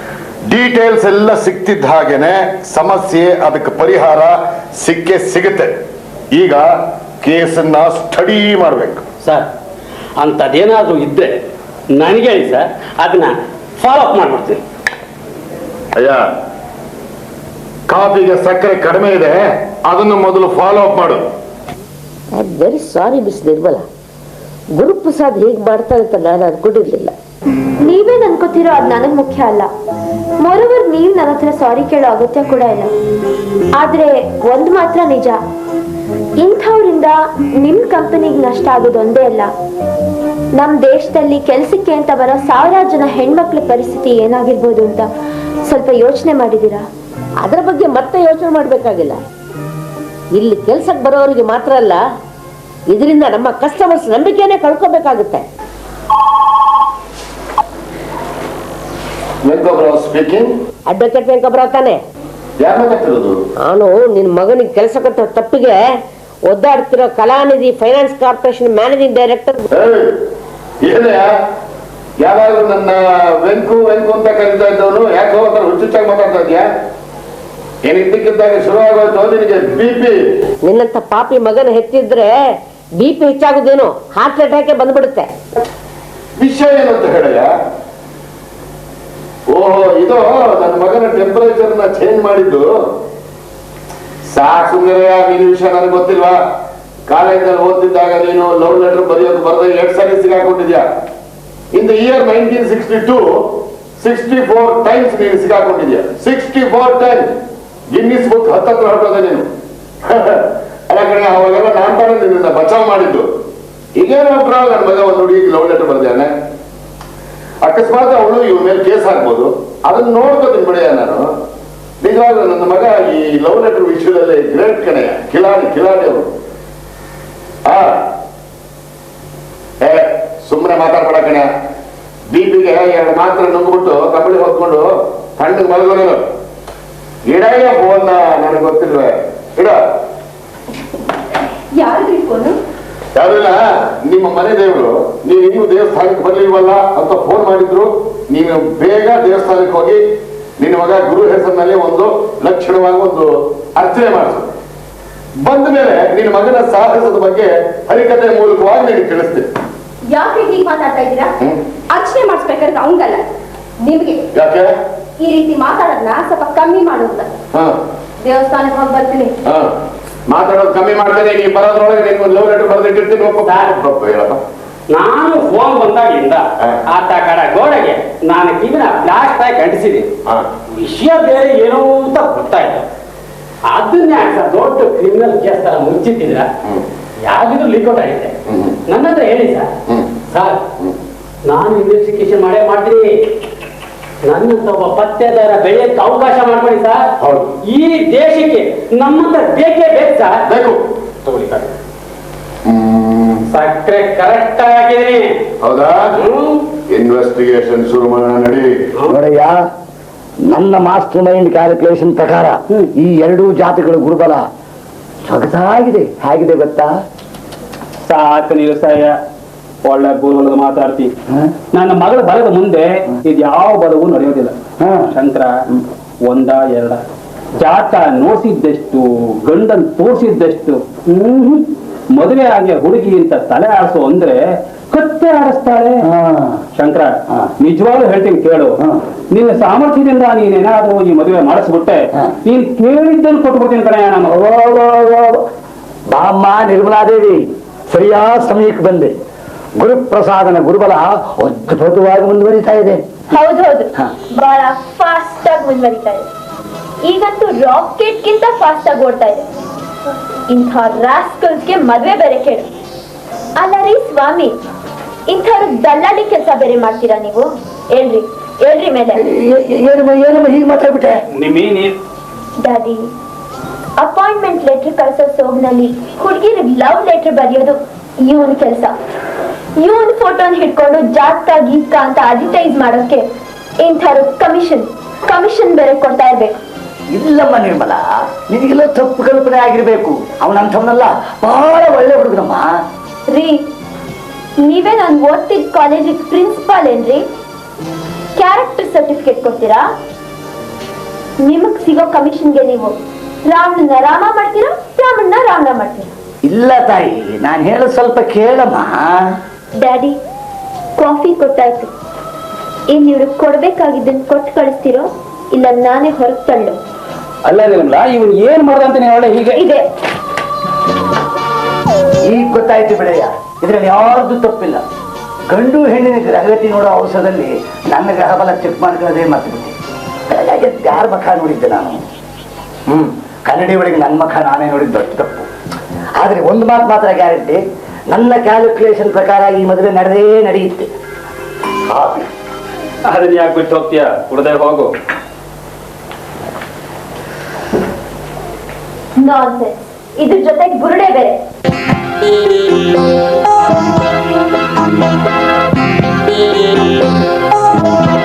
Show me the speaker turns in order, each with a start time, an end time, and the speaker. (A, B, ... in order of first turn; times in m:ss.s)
0:00.5-0:05.8 A
0:06.3-0:06.7 A
0:07.2-0:09.0 A
0:10.2-0:11.4 B
0:12.0-0:14.6 B
0:16.0-0:16.2 A
0:17.9-0:21.2 A
0:22.3-0:23.9 C
0:24.8-0:27.1 C
0:27.8-0:29.7 D
0:30.4-0:32.9 D
0:33.8-0:35.4 D
0:36.4-0:39.5 D
0:40.6-0:45.1 D
0:45.7-0:46.8 D
0:47.4-0:49.2 C
0:50.4-0:52.0 C
0:52.9-0:55.4 C
0:59.4-1:00.5 A
1:00.9-1:02.0 C
1:02.6-1:03.4 A
1:03.6-1:05.8 C
1:06.5-1:09.6 C
1:09.7-1:10.1 A
1:10.8-1:11.3 A
1:12.2-1:16.6 A
1:17.9-1:20.2 A
1:20.6-1:22.3 C
1:23.0-1:25.3 C
1:26.4-1:27.5 A
1:29.5-1:32.7 A
1:34.3-1:36.4 A
1:37.1-1:40.9 A
1:41.7-1:47.3 A
1:47.9-1:49.5 A
1:50.0-1:53.3 A
1:54.0-1:56.3 A
1:57.6-2:01.3 A
2:02.0-2:06.3 A
2:07.6-2:08.0 A
2:09.8-2:11.5 A
2:12.3-2:16.2 A
2:17.3-2:19.8 A
2:21.8-2:22.6 E
2:23.2-2:30.0 A
2:30.6-2:34.5 A
2:35.4-2:39.5 A
2:40.1-2:41.3 E
2:41.9-2:43.3 E
2:43.8-2:44.2 E
2:44.3-2:44.7 A
2:45.2-2:47.3 E
2:48.2-2:49.3 E
2:49.4-2:49.7 A
2:50.3-2:54.4 A
2:53.4-2:53.8 B
2:54.9-3:00.1 B
3:00.7-3:02.9 B
3:03.7-3:06.5 B
3:07.2-3:08.3 B
3:08.5-3:08.8 A
3:08.9-3:09.7 B
3:10.3-3:10.6 B
3:11.5-3:13.2 B
3:14.3-3:17.0 B
3:17.2-3:17.6 A
3:17.6-3:20.4 B
3:20.5-3:20.8 A
3:21.2-3:21.7 B
3:22.6-3:23.4 A
3:23.5-3:25.3 B
3:25.6-3:26.1 A
3:26.1-3:26.6 B
3:26.9-3:28.7 A
3:29.1-3:29.6 F
3:30.5-3:34.5 F
3:35.3-3:37.0 F
3:38.1-3:39.2 B
3:39.8-3:41.1 B
3:41.7-3:44.6 B
3:44.8-3:45.1 F
3:45.1-3:45.6 B
3:46.3-3:47.0 B
3:47.6-3:56.1 B
3:56.0-3:56.6 F
3:56.8-3:58.8 B
3:59.3-4:04.3 B
4:04.3-4:05.4 F
4:06.1-4:09.1 F
4:09.8-4:13.0 F
4:13.3-4:16.3 D
4:17.0-4:19.5 D
4:20.5-4:22.7 D
4:23.6-4:24.6 D
4:25.3-4:29.2 D
4:29.2-4:31.2 F
4:31.4-4:32.0 B
4:32.6-4:33.1 D
4:34.0-4:39.0 D
4:39.8-4:43.2 D
4:43.8-4:46.6 D
4:47.1-4:52.7 F
4:53.3-4:53.6 D
4:54.6-4:57.2 D
4:58.4-4:59.8 D
5:01.4-5:06.1 D
5:06.5-5:09.2 F
5:09.8-5:10.2 D
5:11.0-5:11.9 D
5:12.9-5:16.8 D
5:17.5-5:19.6 B
5:19.6-5:19.8 D
5:22.3-5:24.8 F
5:25.5-5:29.8 F
5:30.3-5:32.0 F
5:32.9-5:35.5 F
5:36.2-5:40.9 F
5:41.9-5:42.3 F
5:43.1-5:44.9 B
5:49.2-5:51.4 D